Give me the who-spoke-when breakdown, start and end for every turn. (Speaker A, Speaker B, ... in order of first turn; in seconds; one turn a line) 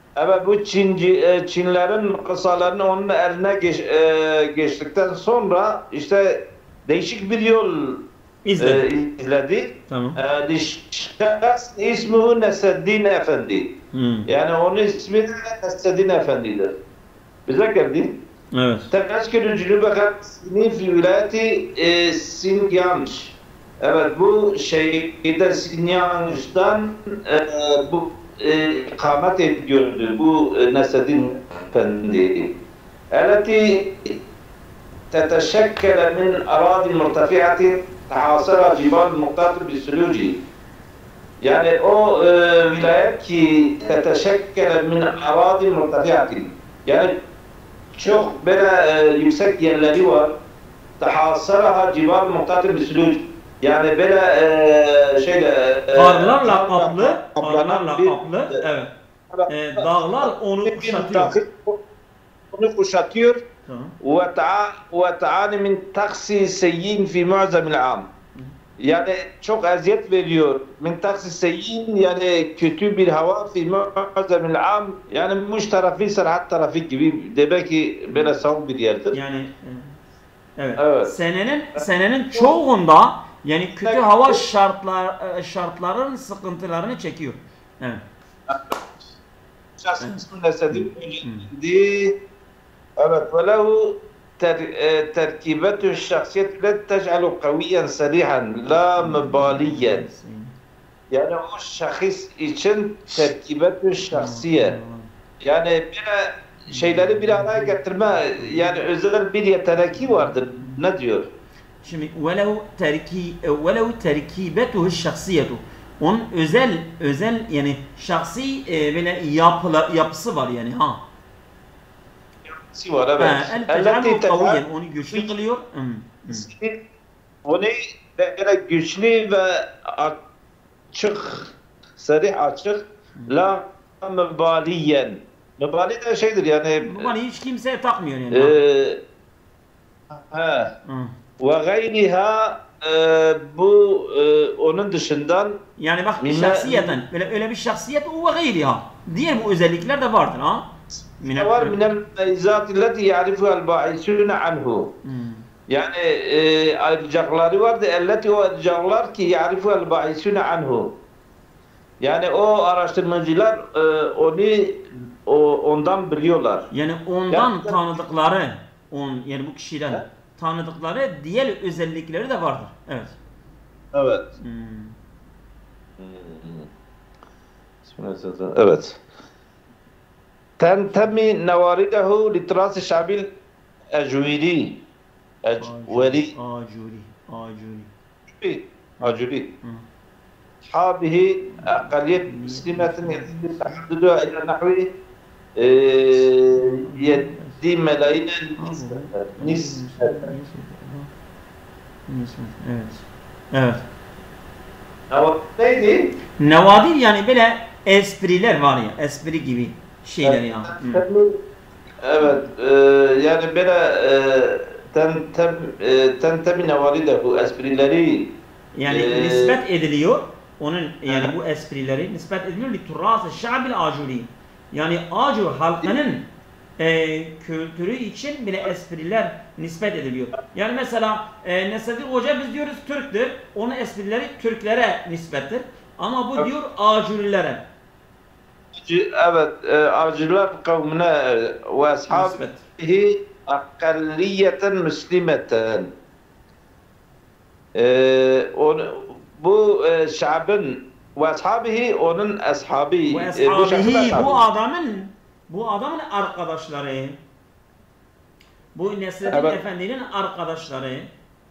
Speaker A: 0.2-8.0
Speaker B: 8.4-8.8
Speaker A: 8.6-13.7
Speaker B: 9.9-10.2
Speaker B: 13.9-14.3
Speaker A: 14.3-16.7
Speaker A: 17.5-18.1
Speaker B: 18.5-18.9
Speaker A: 18.9-32.5
Speaker A: 33.1-34.1
Speaker A: 35.1-40.4
Speaker A: 41.4-47.1
Speaker A: 47.9-50.3
Speaker A: 51.0-58.6
Speaker B: 55.9-58.9
Speaker A: 59.3-61.8
Speaker B: 59.5-61.3
Speaker A: 62.5-63.4
Speaker B: 63.6-63.9
Speaker A: 64.0-68.1
Speaker A: 68.8-79.2
Speaker B: 78.1-78.4
Speaker B: 79.1-80.0
Speaker B: 80.6-88.0
Speaker A: 80.8-81.1
Speaker A: 83.8-84.4
Speaker A: 88.5-88.8
Speaker A: 89.8-92.1
Speaker B: 90.0-91.5
Speaker A: 93.0-100.0
Speaker B: 99.0-100.5
Speaker A: 101.1-104.7
Speaker B: 104.1-105.1
Speaker A: 105.4-111.3
Speaker B: 106.7-107.8
Speaker B: 108.4-108.8
Speaker B: 109.9-110.8
Speaker B: 111.8-121.0
Speaker A: 122.5-125.3
Speaker B: 123.2-126.5
Speaker A: 126.3-126.8
Speaker A: 127.4-130.2
Speaker A: 130.9-137.1
Speaker B: 136.8-138.5
Speaker A: 138.3-139.0
Speaker A: 140.1-140.7
Speaker B: 140.9-141.1
Speaker A: 141.4-145.6
Speaker B: 145.8-150.7
Speaker A: 146.2-147.0
Speaker B: 151.2-151.8
Speaker A: 151.3-154.9
Speaker B: 155.0-155.4
Speaker A: 155.7-160.9
Speaker A: 162.0-166.7
Speaker B: 166.7-173.2
Speaker A: 167.3-167.8
Speaker A: 173.9-174.2
Speaker B: 174.4-174.9
Speaker A: 176.0-176.7
Speaker A: 177.8-179.0
Speaker A: 180.6-183.3
Speaker A: 183.9-184.7
Speaker A: 185.4-186.3
Speaker B: 185.6-187.9
Speaker A: 188.3-189.5
Speaker B: 189.0-189.8
Speaker A: 190.6-194.9
Speaker B: 191.6-193.8
Speaker A: 195.6-200.3
Speaker B: 196.5-197.6
Speaker B: 198.6-201.1
Speaker B: 202.1-203.8
Speaker A: 205.1-206.1
Speaker B: 206.4-211.0
Speaker A: 210.2-211.4
Speaker A: 212.0-218.3
Speaker B: 218.7-226.2
Speaker A: 218.9-219.6
Speaker B: 226.8-237.7
Speaker A: 238.8-245.9
Speaker B: 242.1-242.6
Speaker A: 247.8-254.4
Speaker B: 253.1-257.2
Speaker B: 258.7-261.1
Speaker A: 259.3-259.6